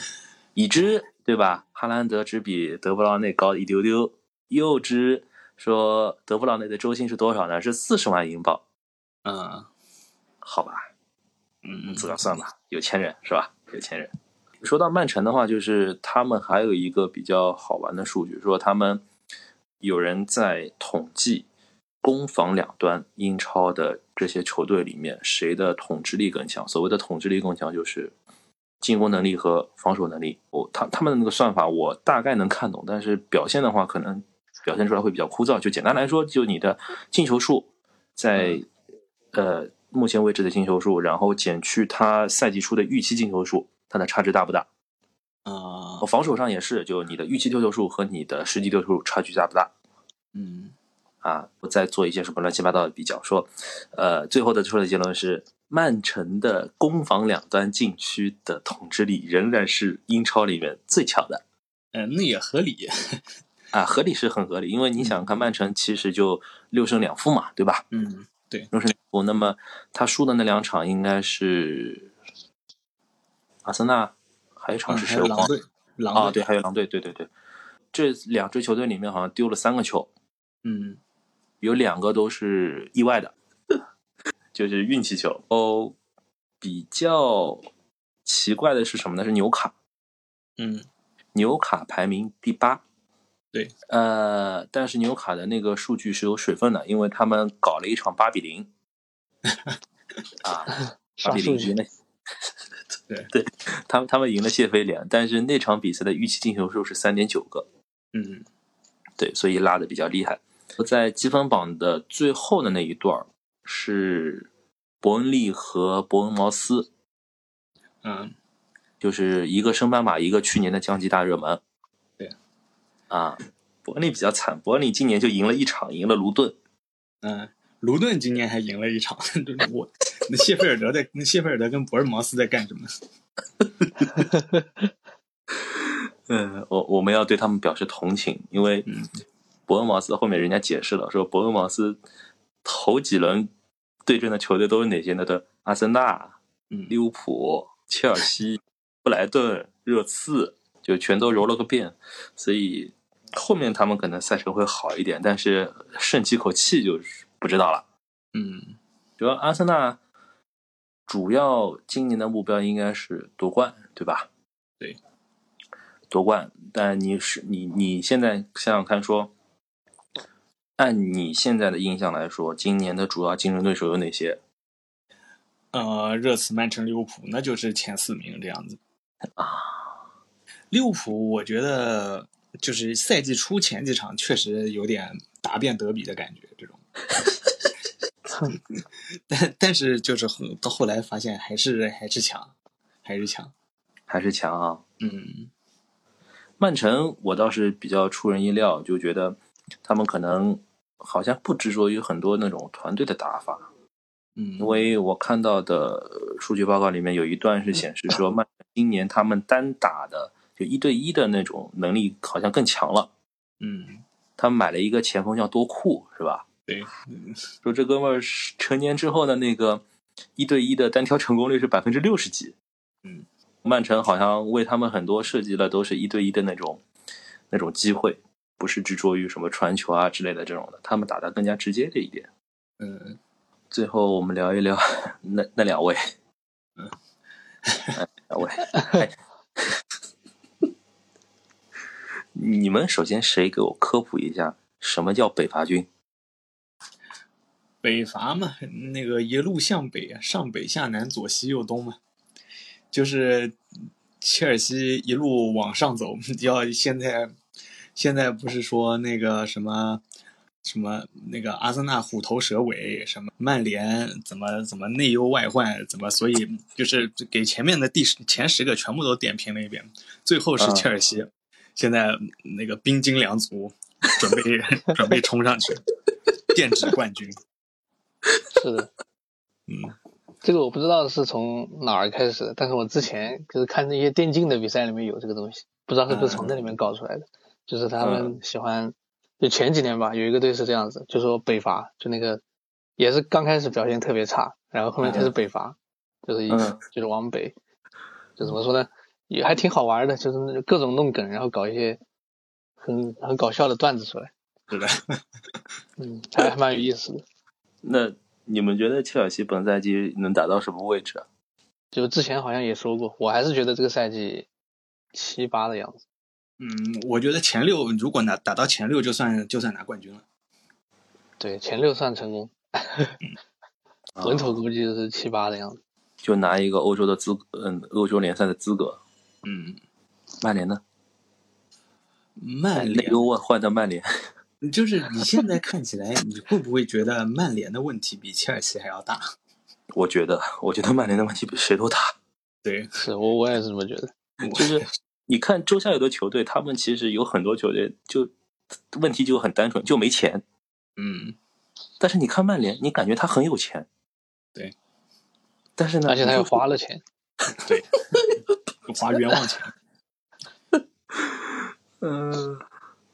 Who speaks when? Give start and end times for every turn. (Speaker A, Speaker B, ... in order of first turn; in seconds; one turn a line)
Speaker A: 0.6-8.6
Speaker B: 9.2-9.7
Speaker A: 10.4-10.9
Speaker B: 11.6-12.2
Speaker A: 11.9-19.0
Speaker A: 19.8-21.5
Speaker A: 22.0-28.1
Speaker A: 28.8-38.7
Speaker A: 39.3-44.7
Speaker B: 45.5-46.0
Speaker A: 46.0-49.7
Speaker B: 50.3-50.7
Speaker A: 51.2-61.4
Speaker B: 61.9-63.2
Speaker A: 63.7-67.8
Speaker B: 67.9-68.7
Speaker A: 68.7-72.1
Speaker A: 73.6-75.5
Speaker B: 74.9-76.4
Speaker A: 76.1-77.3
Speaker A: 77.9-80.1
Speaker B: 80.6-81.0
Speaker A: 81.6-83.8
Speaker A: 84.5-86.0
Speaker A: 86.6-87.7
Speaker A: 88.2-89.7
Speaker B: 90.6-90.8
Speaker A: 91.3-92.8
Speaker A: 93.9-98.7
Speaker B: 99.5-99.8
Speaker A: 100.4-101.9
Speaker C: 101.2-101.7
Speaker A: 103.3-107.7
Speaker B: 108.1-108.5
Speaker A: 109.2-114.5
Speaker A: 115.0-116.9
Speaker B: 118.0-118.3
Speaker A: 119.0-121.6
Speaker A: 123.1-126.5
Speaker B: 127.2-132.9
Speaker A: 135.6-138.9
Speaker A: 139.7-142.0
Speaker A: 142.6-143.5
Speaker A: 144.1-146.3
Speaker A: 146.9-157.8
Speaker B: 158.3-158.8
Speaker A: 159.2-160.0
Speaker A: 161.1-164.3
Speaker A: 166.1-169.3
Speaker A: 170.8-174.4
Speaker B: 175.7-178.8
Speaker A: 179.4-179.9
Speaker B: 180.7-186.8
Speaker B: 188.4-193.5
Speaker A: 194.1-194.8
Speaker B: 195.0-195.5
Speaker A: 196.6-203.7
Speaker B: 204.3-204.8
Speaker A: 204.6-213.1
Speaker B: 213.6-214.0
Speaker A: 214.4-216.4
Speaker B: 216.7-217.4
Speaker A: 217.6-219.8
Speaker A: 220.4-222.5
Speaker A: 223.6-226.8
Speaker A: 227.5-232.3
Speaker B: 232.8-233.2
Speaker A: 233.7-236.0
Speaker B: 237.6-238.0
Speaker A: 237.9-239.8
Speaker A: 242.3-245.9
Speaker B: 247.8-252.0
Speaker B: 252.9-253.6
Speaker B: 254.2-257.3
Speaker B: 257.9-260.0
Speaker B: 260.6-275.8
Speaker A: 270.6-270.9
Speaker B: 276.5-277.4
Speaker C: 278.5-278.9
Speaker B: 279.7-279.9
Speaker C: 280.4-292.4
Speaker B: 286.1-286.7
Speaker A: 288.0-288.4
Speaker C: 293.0-297.5
Speaker B: 295.0-295.3
Speaker A: 296.5-296.8
Speaker C: 298.4-302.0
Speaker C: 302.8-304.3
Speaker B: 304.7-305.2
Speaker C: 306.0-307.2
Speaker A: 307.8-311.2
Speaker C: 311.9-314.5
Speaker C: 315.1-316.0
Speaker B: 316.6-320.2
Speaker C: 321.4-323.2
Speaker A: 324.1-324.6
Speaker C: 324.2-325.8
Speaker A: 326.2-329.0
Speaker B: 329.4-329.8
Speaker A: 330.4-330.8
Speaker B: 332.4-333.2
Speaker A: 332.7-334.2
Speaker B: 334.6-339.2
Speaker A: 339.9-342.1
Speaker B: 342.6-342.9
Speaker C: 342.9-344.1
Speaker B: 344.4-344.9
Speaker A: 344.5-348.3
Speaker A: 348.9-350.4
Speaker B: 351.0-351.4
Speaker A: 352.0-353.9
Speaker A: 355.8-356.7
Speaker C: 356.1-357.0
Speaker B: 357.6-357.9
Speaker B: 358.9-359.7
Speaker A: 361.1-362.6